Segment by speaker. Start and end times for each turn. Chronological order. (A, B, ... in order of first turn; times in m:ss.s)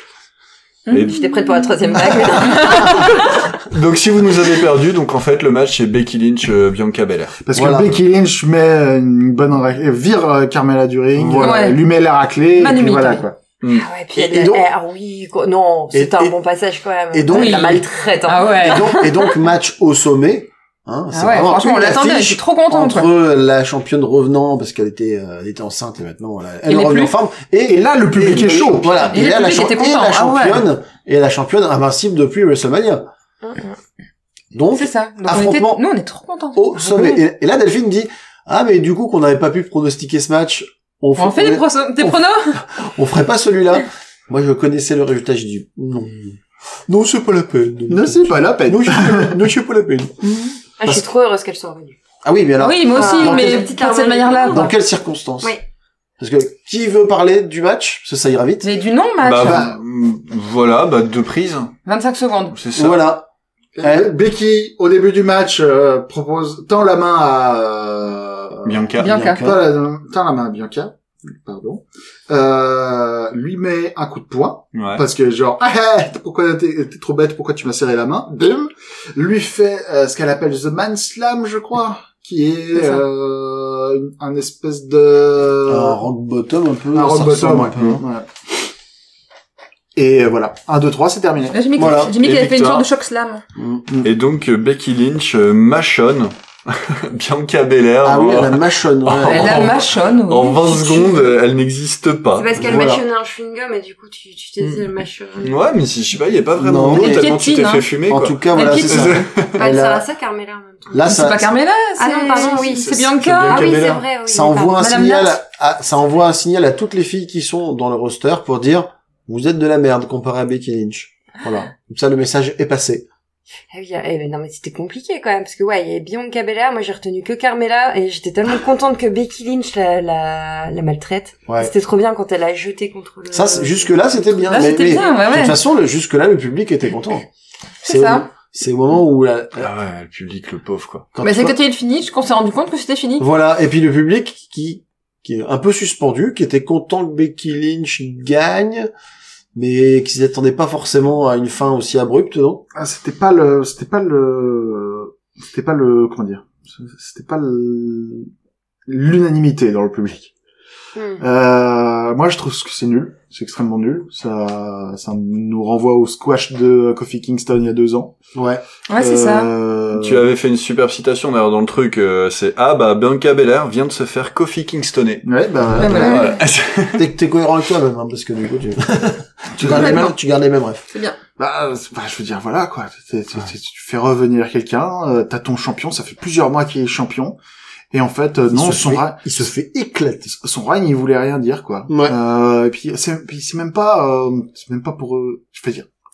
0:00.9-0:03.0 A
0:00.9-0:01.3 B
0:00.9-0:03.2 C
0:02.1-0:07.4 B
0:07.4-0:13.4 D
0:07.5-0:07.9 E
0:11.1-0:11.7 E
0:11.4-0:11.8 A
0:12.6-0:13.2 A
0:13.6-0:13.9 B
0:13.7-0:19.4 C
0:14.1-0:14.6 E
0:15.9-0:16.4 E
0:17.1-0:17.8 E
0:17.3-0:18.9 A
0:18.6-0:33.1 E
0:21.1-0:23.1 A
0:26.7-0:27.1 A
0:27.8-0:29.1 D
0:29.1-0:30.7 A
0:33.4-0:33.7 C
0:34.5-0:35.8 E
0:34.7-0:37.2 A
0:36.5-0:51.0 E
0:41.2-0:42.6 A
0:47.9-0:49.4 D
0:50.8-0:52.0 C
0:52.2-0:53.7 E
0:52.6-0:54.7 A
0:52.9-0:54.7 C
0:54.5-0:55.6 E
0:56.2-0:58.7 E
0:58.6-0:59.7 A
0:59.2-1:01.7 B
0:59.4-0:59.7 D
1:01.8-1:02.6 A
1:02.5-1:03.0 B
1:02.7-1:03.3 E
1:03.8-1:26.0 D
1:03.8-1:04.1 E
1:08.6-1:09.2 B
1:09.0-1:09.5 A
1:09.0-1:09.6 E
1:14.7-1:15.0 B
1:22.7-1:23.0 A
1:25.7-1:28.0 E
1:26.9-1:28.3 D
1:29.9-1:31.7 D
1:31.5-1:33.4 A
1:31.8-1:32.1 E
1:32.0-1:32.9 B
1:33.6-1:33.8 E
1:34.0-1:42.5 B
1:38.0-1:39.7 E
1:39.3-1:41.3 A
1:42.4-1:45.7 C
1:42.6-1:43.0 E
1:45.4-1:49.5 B
1:46.6-1:47.3 E
1:46.9-1:47.9 A
1:48.1-1:50.0 E
1:48.5-1:49.2 A
1:49.6-1:51.1 C
1:50.9-1:51.5 E
1:51.0-1:53.8 A
1:52.0-1:55.0 C
1:53.2-2:03.0 E
1:54.8-1:55.4 A
2:03.7-2:15.2 C
2:11.5-2:11.7 E
2:13.3-2:17.3 E
2:14.5-2:15.6 A
2:17.8-2:18.3 A
2:17.8-2:19.7 E
2:19.6-2:21.1 B
2:21.1-2:21.6 E
2:21.2-2:23.3 A
2:23.2-2:28.9 E
2:29.5-2:32.6 E
2:32.7-2:38.3 D
2:38.9-2:40.3 D
2:41.0-2:41.2 C
2:41.2-2:48.2 D
2:48.3-2:48.6 E
2:48.9-2:49.5 A
2:49.0-2:50.2 D
2:49.9-2:55.2 B
2:55.2-2:56.3 D
2:55.8-2:56.3 A
2:55.8-2:57.0 B
2:56.9-3:00.8 E
2:59.5-3:00.1 D
2:59.6-3:00.1 A
3:00.9-3:01.2 A
3:01.4-3:07.4 D
3:07.9-3:09.4 D
3:08.5-3:10.3 E
3:10.3-3:15.9 D
3:11.9-3:12.2 E